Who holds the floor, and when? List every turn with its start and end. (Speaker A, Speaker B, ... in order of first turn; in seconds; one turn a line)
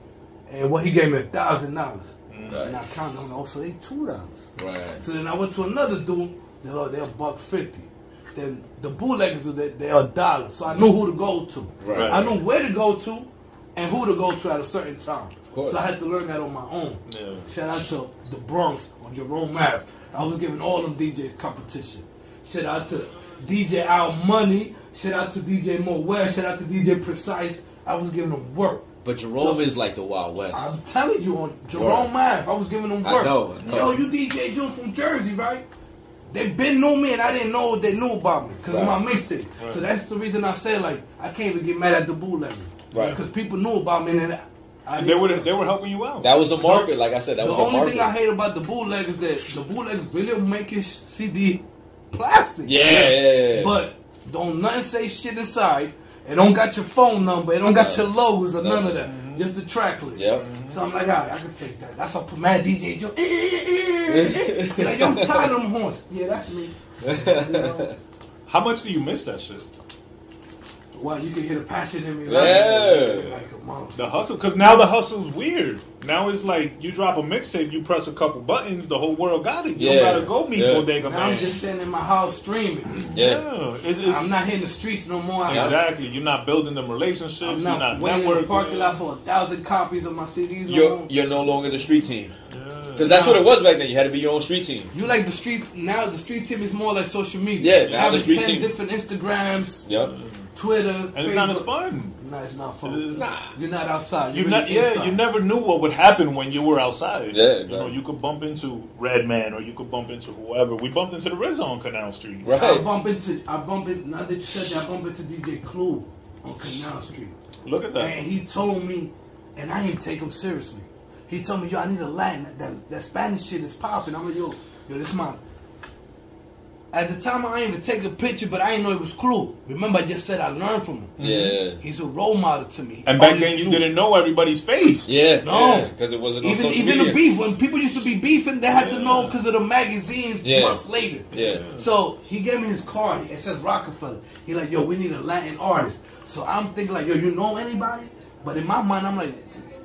Speaker A: 0.5-28.9
Speaker B: 2.3-2.7
Speaker C: 2.5-3.0
Speaker C: 4.6-5.0
Speaker C: 11.8-12.3
Speaker B: 11.9-12.4
Speaker C: 15.5-15.8
Speaker B: 17.1-17.5
Speaker C: 29.0-30.8
Speaker A: 29.4-29.7
Speaker A: 30.5-35.6
Speaker C: 31.7-32.1
Speaker C: 33.0-34.0
Speaker B: 33.6-34.0
Speaker A: 36.3-45.5
Speaker C: 38.7-39.0
Speaker B: 39.6-39.8
Speaker C: 42.9-43.2
Speaker B: 42.9-43.2
Speaker B: 44.9-46.4
Speaker C: 46.2-48.1
Speaker A: 46.6-67.9
Speaker C: 52.6-53.8
Speaker B: 52.9-53.1
Speaker C: 57.7-59.0
Speaker B: 59.0-59.5
Speaker C: 60.1-60.5
Speaker B: 60.4-60.8
Speaker C: 64.1-65.5
Speaker C: 67.0-68.0
Speaker B: 68.5-69.7
Speaker A: 70.9-74.0
Speaker C: 72.2-73.3
Speaker B: 72.3-73.4
Speaker B: 73.9-81.6
Speaker C: 79.8-80.9
Speaker A: 81.0-83.1
Speaker B: 82.9-84.4
Speaker C: 83.1-83.4
Speaker A: 84.0-85.8
Speaker B: 85.5-89.0
Speaker C: 85.5-85.8
Speaker A: 87.4-91.1
Speaker C: 90.7-92.3
Speaker B: 92.5-93.3
Speaker C: 92.9-94.9
Speaker A: 93.0-93.5
Speaker A: 94.9-99.8
Speaker C: 97.6-98.7
Speaker B: 97.8-98.3
Speaker C: 99.8-100.1
Speaker B: 99.9-100.5
Speaker A: 100.5-105.2
Speaker B: 101.1-102.2
Speaker B: 102.8-103.3
Speaker C: 103.1-103.5
Speaker B: 104.3-112.5
Speaker C: 107.3-108.0
Speaker C: 112.4-112.9
Speaker A: 112.5-117.3
Speaker B: 117.6-118.2
Speaker A: 118.0-125.4
Speaker A: 126.9-131.1
Speaker B: 131.2-131.6
Speaker C: 131.2-131.8
Speaker A: 131.8-133.9
Speaker B: 133.1-135.1
Speaker C: 135.1-137.2
Speaker A: 135.4-149.5
Speaker B: 138.7-139.4
Speaker C: 140.4-141.6
Speaker B: 141.3-141.9